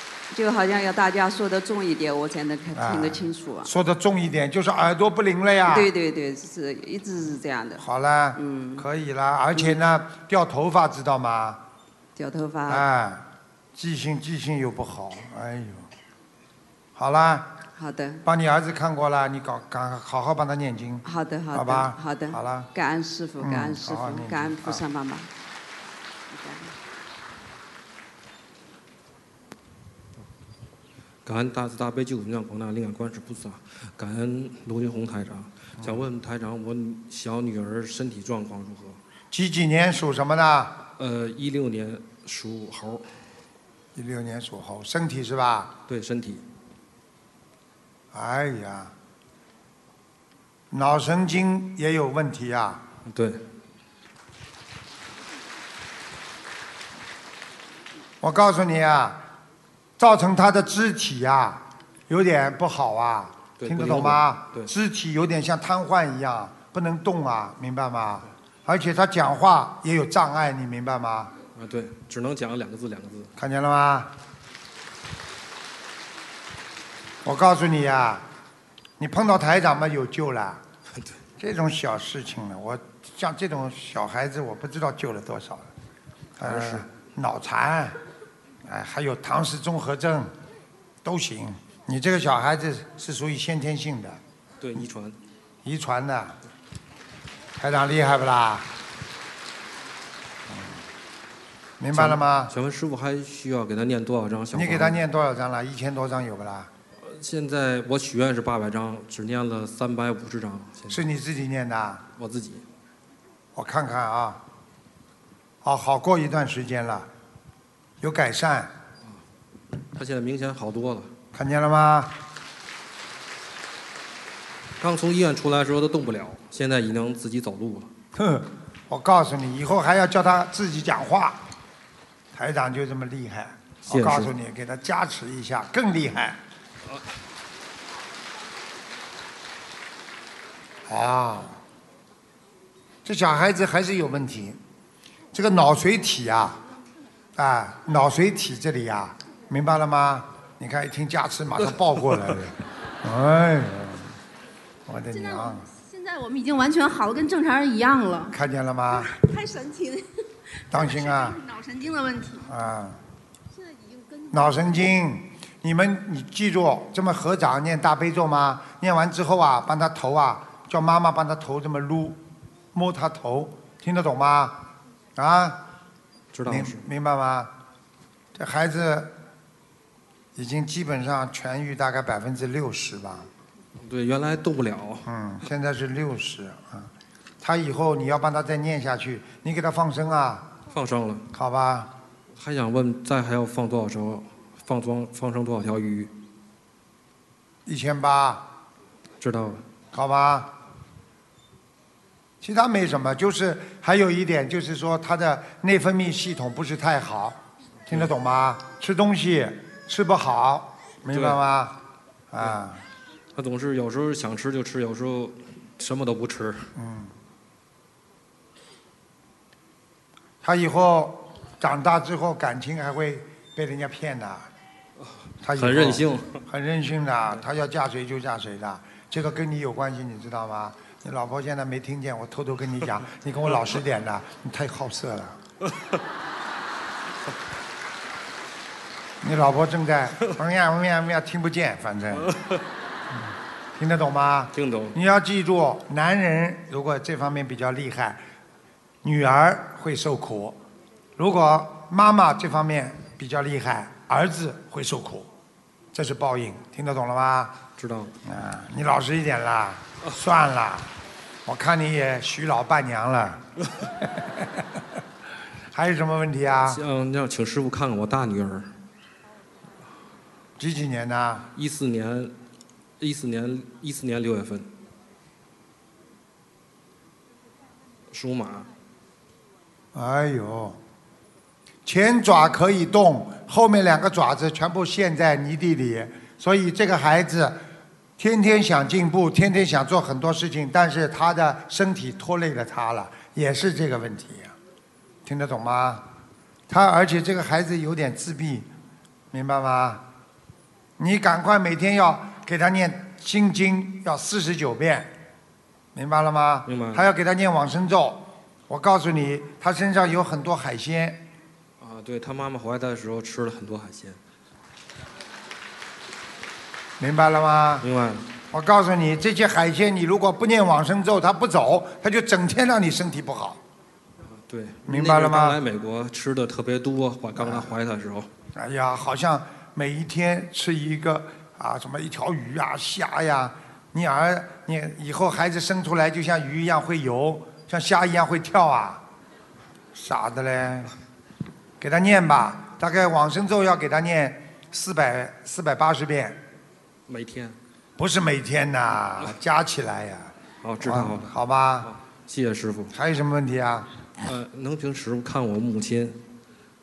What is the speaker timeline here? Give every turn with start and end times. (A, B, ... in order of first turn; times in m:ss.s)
0:00.3-0:03.7 A
0:02.7-0:05.9 B
0:05.7-0:07.8 A
0:07.8-0:11.6 B
0:08.4-0:08.8 A
0:12.2-0:12.8 A
0:12.7-0:15.9 B
0:16.9-0:17.5 B
0:17.8-0:18.2 A
0:18.2-0:22.7 B
0:21.0-0:25.3 A
0:23.4-0:24.8 B
0:26.3-0:26.7 A
0:31.2-0:39.0 C
0:39.3-0:40.8 B
0:41.0-0:43.1 C
0:43.9-0:45.8 B
0:45.9-0:46.4 C
0:48.1-0:48.9 B
0:50.7-0:52.8 B
0:53.1-0:53.4 C
0:58.2-0:59.2 B
1:00.0-1:11.3 B
1:03.6-1:04.7 C
1:11.6-1:13.3 C
1:13.4-1:14.1 B
1:17.2-1:18.2 B
1:19.0-1:20.6 B
1:21.4-1:25.7 B
1:26.4-1:28.0 B
1:26.4-1:26.9 C
1:28.6-1:30.3 B
1:31.0-1:34.2 B
1:34.6-1:35.2 C
1:35.6-1:36.4 B
1:37.6-1:38.7 B
1:40.5-1:40.8 B
1:41.8-1:42.5 B
1:41.9-1:45.0 C
1:44.5-1:46.7 B
1:47.0-1:51.0 C
1:50.9-1:52.0 B
1:52.2-1:52.6 C
1:53.6-1:54.4 B
1:55.6-1:57.1 B
1:58.0-1:58.7 B
1:59.9-2:01.1 C
2:01.3-2:02.2 B
2:04.8-2:07.9 C
2:08.1-2:11.4 B
2:12.3-2:16.4 B
2:13.9-2:14.3 C
2:20.9-2:21.6 B
2:23.0-2:24.6 B
2:25.3-2:26.6 B
2:27.4-2:34.1 B
2:34.9-2:35.7 B
2:35.9-2:38.3 D
2:38.3-2:39.2 B
2:39.1-2:40.0 D
2:40.7-2:41.4 B
2:41.3-2:42.3 D
2:42.4-2:43.0 B
2:44.3-2:52.2 B
2:52.7-2:55.6 B
2:56.3-2:56.8 C
2:56.4-2:57.5 B
2:58.4-2:59.1 B
3:00.4-3:03.3 B
3:03.8-3:05.1 C
3:05.0-3:10.5 B
3:10.7-3:11.3 C
3:11.3-3:11.9 B
3:12.4-3:16.1 C
3:17.6-3:18.4 B
3:19.2-3:19.6 C
3:19.9-3:20.5 B
3:22.4-3:31.8 B
3:31.1-3:31.4 C
3:32.3-3:32.8 B
3:33.4-3:36.7 C
3:36.8-3:37.1 B
3:40.4-3:44.5 B
3:45.0-3:46.4 C
3:45.4-3:55.4 B
3:59.2-4:02.3 B
4:02.2-4:02.6 C
4:03.1-4:08.2 B
4:04.5-4:05.0 C
4:09.0-4:10.6 B
4:11.2-4:15.3 B
4:15.9-4:17.6 B
4:17.8-4:18.1 C
4:18.2-4:20.9 B
4:21.4-4:23.4 B
4:24.0-4:24.7 B
4:25.7-4:26.8 B
4:26.7-4:28.7 C
4:30.6-4:31.5 B
4:31.6-4:32.3 C
4:33.0-4:34.7 C
4:38.1-4:38.7 C
4:39.9-4:40.8 B
4:41.8-4:47.6 B
4:48.2-4:54.6 B
4:55.2-4:56.1 B
4:56.7-4:58.7 B
4:59.3-5:00.0 B
5:01.0-5:05.1 B
5:05.9-5:11.3 B
5:06.7-5:07.0 C
5:11.8-5:14.2 C
5:17.0-5:17.9 B
5:17.8-5:18.3 C
5:18.5-5:23.6 B
5:24.3-5:28.3 C
5:24.9-5:25.6 B
5:27.4-5:27.7 B
5:28.6-5:39.0 B
5:39.9-5:40.9 B
5:41.8-5:46.4 B
5:47.1-5:47.6 C
5:48.0-5:51.9 B
5:50.6-5:52.9 C
5:52.9-5:53.9 B
5:54.2-5:56.2 C